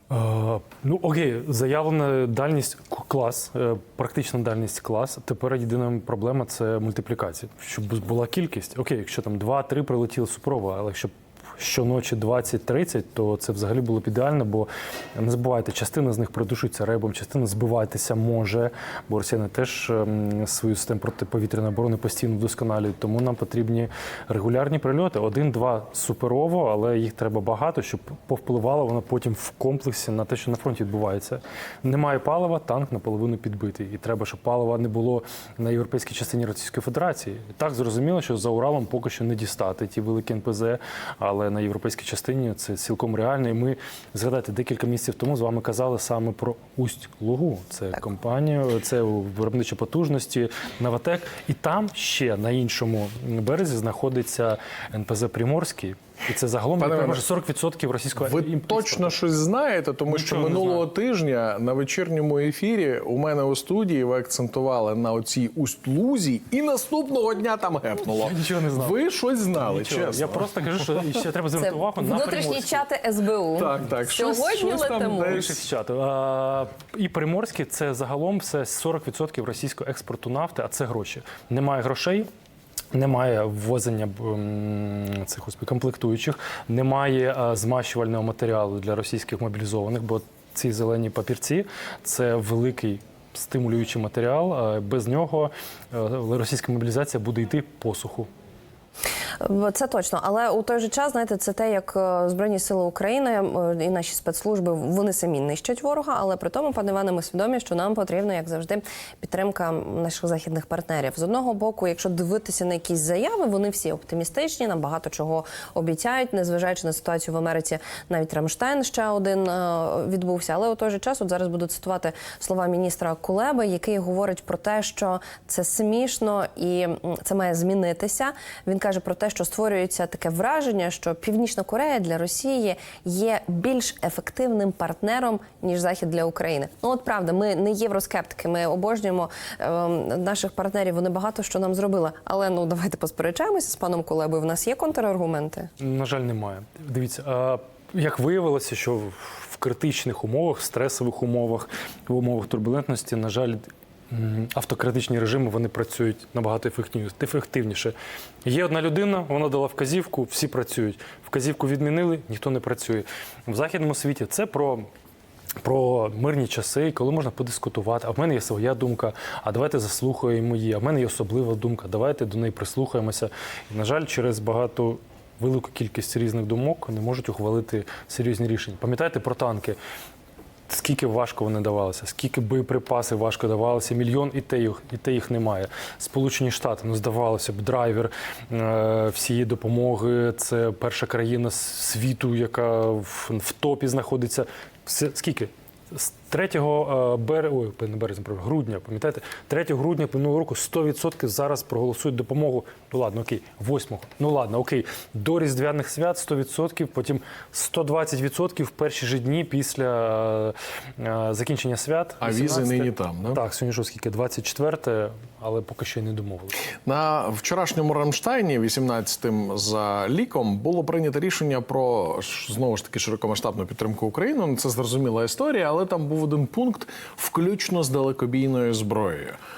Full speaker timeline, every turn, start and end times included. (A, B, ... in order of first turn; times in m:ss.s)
0:00.1-0:59.2 A
0:56.8-0:57.2 B
0:58.2-1:11.0 B
1:00.1-1:00.9 A
1:08.1-1:09.0 A
1:09.6-1:12.9 A
1:11.6-1:15.4 C
1:13.6-1:15.6 B
1:15.2-1:22.3 A
1:22.9-1:38.3 A
1:39.4-2:25.7 C
2:25.8-2:44.9 A
2:45.6-2:59.8 A
3:00.7-3:36.6 A
3:32.2-3:33.4 B
3:36.8-3:49.4 B